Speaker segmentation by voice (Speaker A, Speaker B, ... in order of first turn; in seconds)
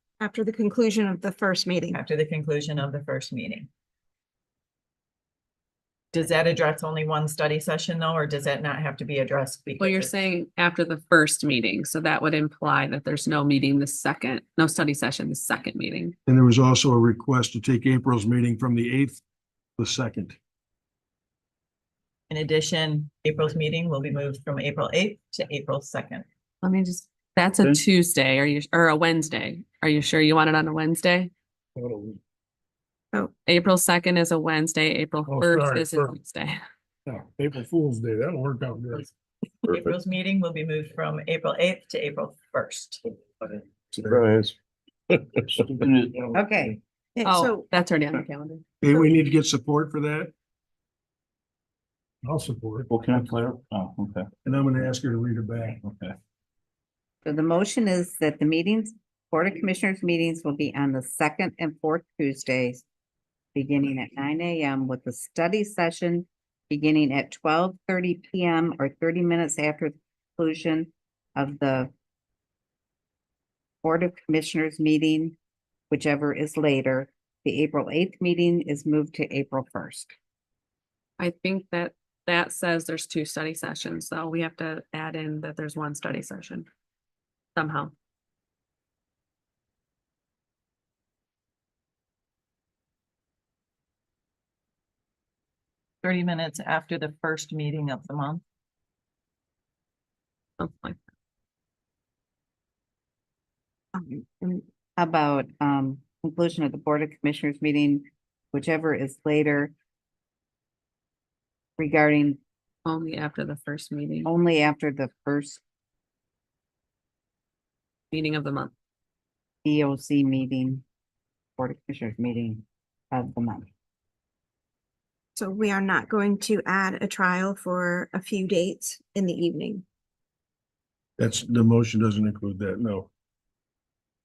Speaker A: 0.2-2.0, 47.1-47.6, 48.8-49.2, 103.9-104.6, 125.3-129.8
Speaker B: 1.9-3.7, 6.1-10.3, 22.3-26.2, 39.7-43.0, 96.0-98.4
Speaker C: 9.8-16.1, 26.6-31.3, 33.5-36.6, 47.2-48.6, 81.2-86.7, 87.5-87.9, 100.6-101.0, 112.8-114.3, 118.1-118.7
Speaker D: 16.2-19.2, 19.8-20.4, 48.8-50.3, 54.4-55.8, 131.2-133.1
Speaker E: 31.8-32.2, 35.2-36.2, 37.0-39.1, 52.2-52.9
Speaker F: 45.6-46.2, 52.9-54.3, 55.8-56.1
Speaker G: 46.3-46.8, 57.2-62.8, 63.5-71.9, 73.8-75.3, 75.9-80.1, 105.0-109.7, 111.8-112.4, 114.2-115.6, 119.6-120.8, 121.6-123.7